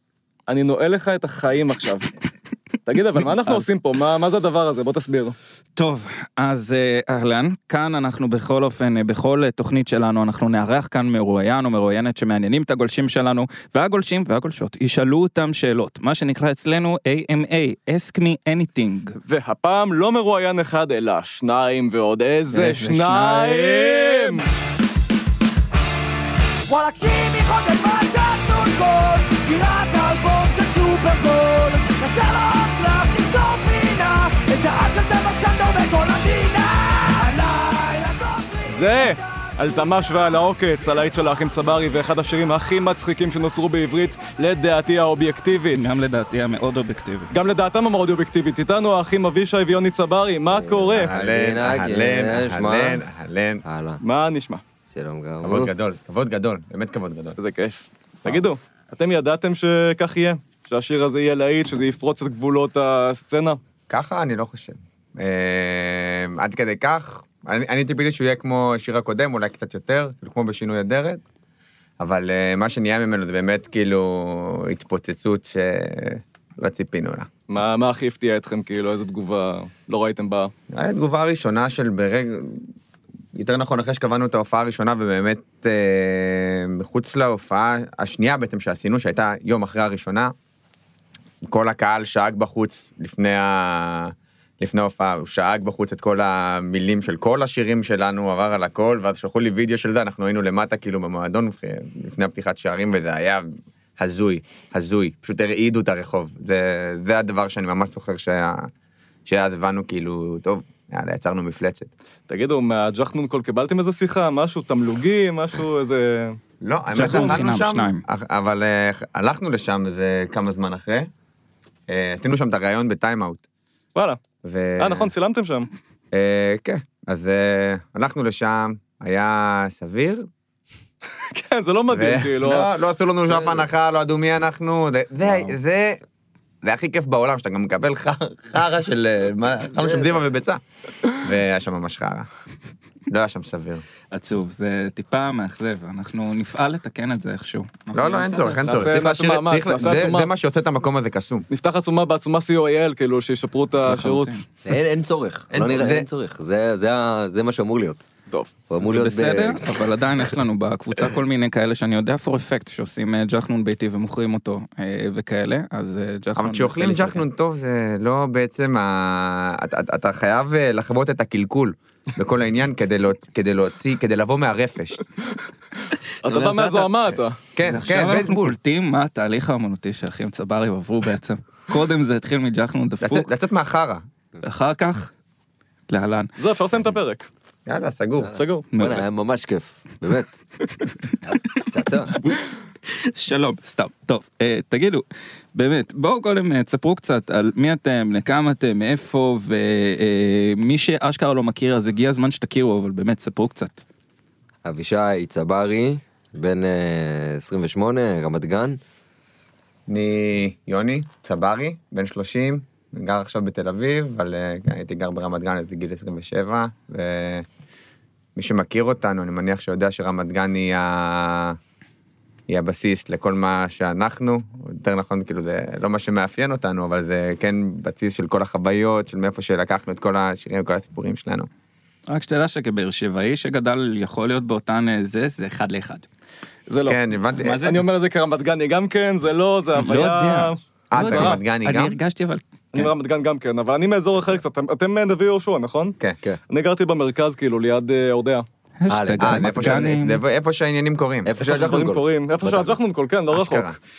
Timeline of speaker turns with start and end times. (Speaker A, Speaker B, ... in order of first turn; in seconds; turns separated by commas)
Speaker A: 0.5-2.1, Speaker A: 2.9-5.3, Speaker B: 3.4-3.6, Speaker B: 5.8-19.2, Speaker A: 19.3-24.4, Speaker B: 22.5-24.2, Speaker C: 26.7-39.2, Speaker A: 38.7-45.9, Speaker B: 45.7-47.3, Speaker A: 47.3-51.1, Speaker D: 50.5-53.0, Speaker E: 51.0-53.6, Speaker D: 53.6-54.0, Speaker A: 54.0-54.6, Speaker D: 54.9-55.7, Speaker E: 55.4-57.4, Speaker A: 57.4-63.6, Speaker E: 63.9-71.2, Speaker E: 72.0-77.3, Speaker A: 77.5-80.5, Speaker E: 80.7-82.6, Speaker E: 83.4-90.3, Speaker E: 91.5-108.7, Speaker E: 109.3-111.9, Speaker A: 112.3-116.4, Speaker E: 116.6-121.1, Speaker B: 116.9-118.0, Speaker A: 117.0-117.4, Speaker E: 121.9-123.4, Speaker A: 124.0-124.2, Speaker E: 124.4-125.1, Speaker A: 124.8-125.7, Speaker E: 126.1-130.3, Speaker A: 131.2-132.7, Speaker E: 131.9-136.0, Speaker D: 133.3-133.7, Speaker B: 135.2-135.6, Speaker E: 136.6-142.3, Speaker D: 139.8-140.3, Speaker E: 143.1-143.8, Speaker B: 144.1-148.7, Speaker E: 147.9-151.5, Speaker A: 148.6-150.3, Speaker A: 151.5-154.4, Speaker B: 153.9-154.4, Speaker D: 154.7-158.0, Speaker E: 155.5-156.1, Speaker D: 158.7-159.9, Speaker B: 158.8-167.2, Speaker E: 166.4-175.0, Speaker A: 176.2-177.4, Speaker E: 176.3-178.6, Speaker B: 177.6-183.3, Speaker E: 183.0-184.0, Speaker B: 184.4-185.1, Speaker B: 185.9-186.3, Speaker A: 186.4-187.3, Speaker E: 187.7-188.4, Speaker D: 188.2-190.4, Speaker A: 188.3-188.7, Speaker B: 188.7-189.1, Speaker D: 191.2-192.2, Speaker B: 192.2-203.8, Speaker D: 204.6-208.8, Speaker E: 209.9-217.4, Speaker E: 218.4-221.6, Speaker E: 222.5-231.5, Speaker B: 232.1-236.1, Speaker A: 236.7-241.4, Speaker E: 236.8-237.6, Speaker B: 237.3-237.8, Speaker B: 239.8-242.9, Speaker E: 240.9-241.9, Speaker A: 242.7-246.0, Speaker A: 246.5-248.4, Speaker B: 248.8-250.2, Speaker D: 248.9-249.9, Speaker E: 249.2-251.4, Speaker D: 251.2-252.8, Speaker A: 251.4-253.7, Speaker E: 253.3-253.8